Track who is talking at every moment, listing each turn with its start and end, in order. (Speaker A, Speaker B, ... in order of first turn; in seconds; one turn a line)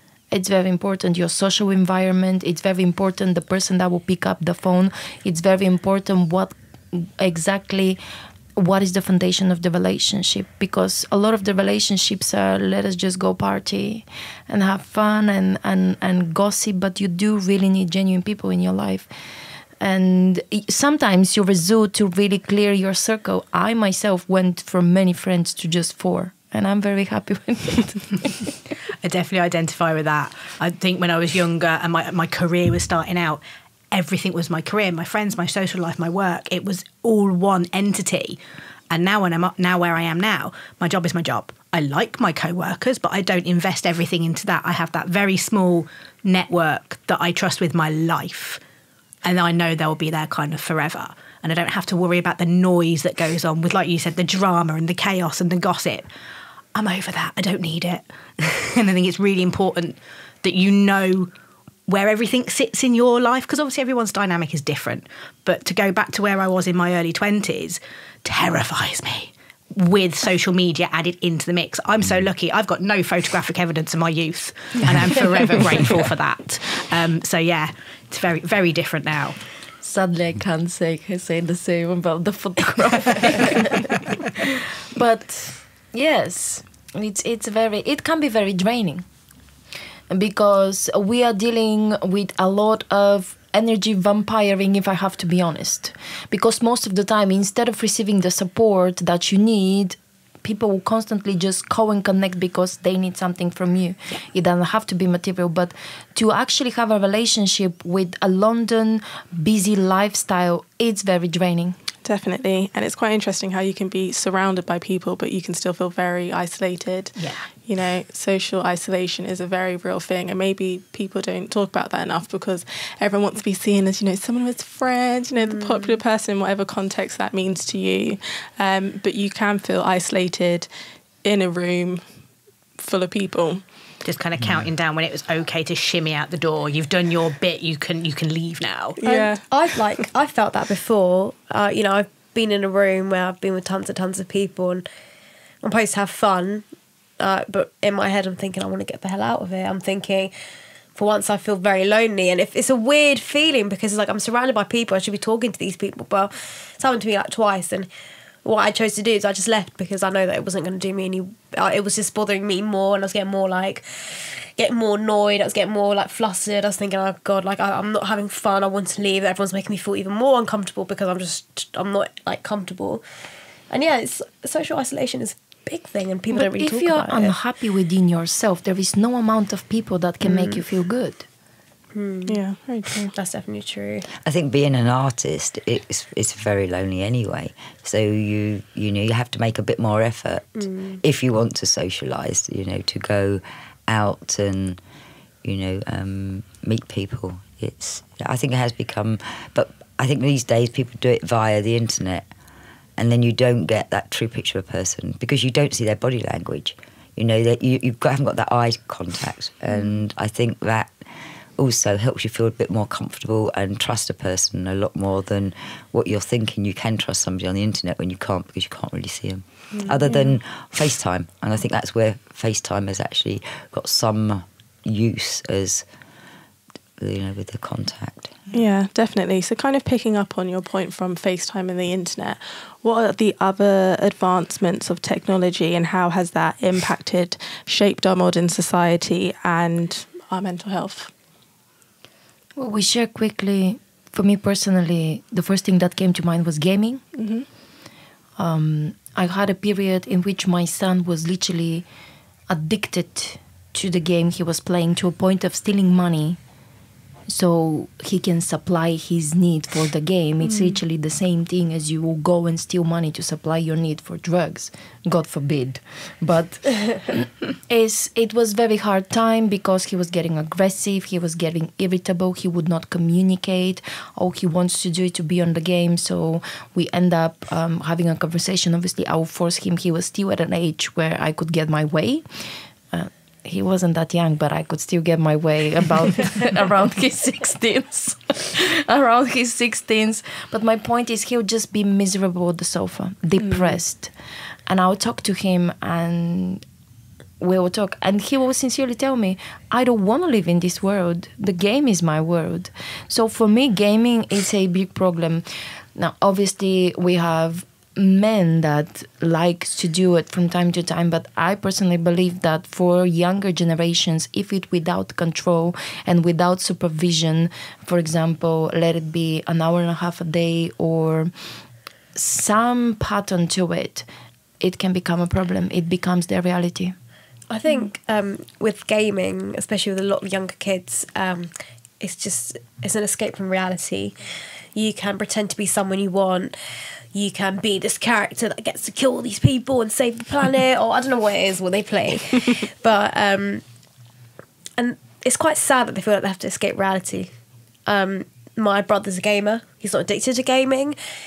Speaker A: 0.3-8.0
Speaker A: 8.6-19.1
Speaker A: 19.8-28.5
Speaker B: 29.0-48.6
Speaker B: 49.2-56.1
Speaker B: 56.7-61.3
Speaker B: 61.9-79.4
Speaker A: 79.8-83.8
Speaker A: 84.4-89.0
Speaker A: 90.1-111.8
Speaker C: 112.0-130.7
Speaker B: 117.2-117.5
Speaker D: 125.4-126.0
Speaker C: 131.2-132.0
Speaker C: 132.8-133.6
Speaker B: 134.0-139.0
Speaker C: 139.0-139.4
Speaker D: 139.1-144.8
Speaker D: 145.6-146.6
Speaker D: 147.2-150.3
Speaker D: 150.9-157.9
Speaker D: 158.4-173.0
Speaker D: 173.7-177.3
Speaker A: 176.3-181.3
Speaker D: 180.2-180.6
Speaker D: 181.9-182.4
Speaker C: 182.2-183.1
Speaker D: 183.1-184.1
Speaker E: 184.2-194.8
Speaker D: 190.6-191.0
Speaker E: 195.4-202.3
Speaker E: 203.0-210.9
Speaker E: 211.6-225.8
Speaker D: 219.7-220.3
Speaker E: 227.0-228.3
Speaker C: 228.5-241.1
Speaker A: 242.6-247.0
Speaker C: 247.2-247.4
Speaker A: 248.4-251.8
Speaker A: 252.5-256.4
Speaker A: 257.3-294.1
Speaker C: 293.4-293.8
Speaker A: 294.7-296.6
Speaker A: 297.4-305.4
Speaker A: 305.9-321.3
Speaker A: 322.1-324.1
Speaker A: 324.6-326.9
Speaker D: 327.5-334.1
Speaker D: 334.7-336.5
Speaker D: 337.1-343.6
Speaker D: 344.8-347.3
Speaker D: 347.9-350.9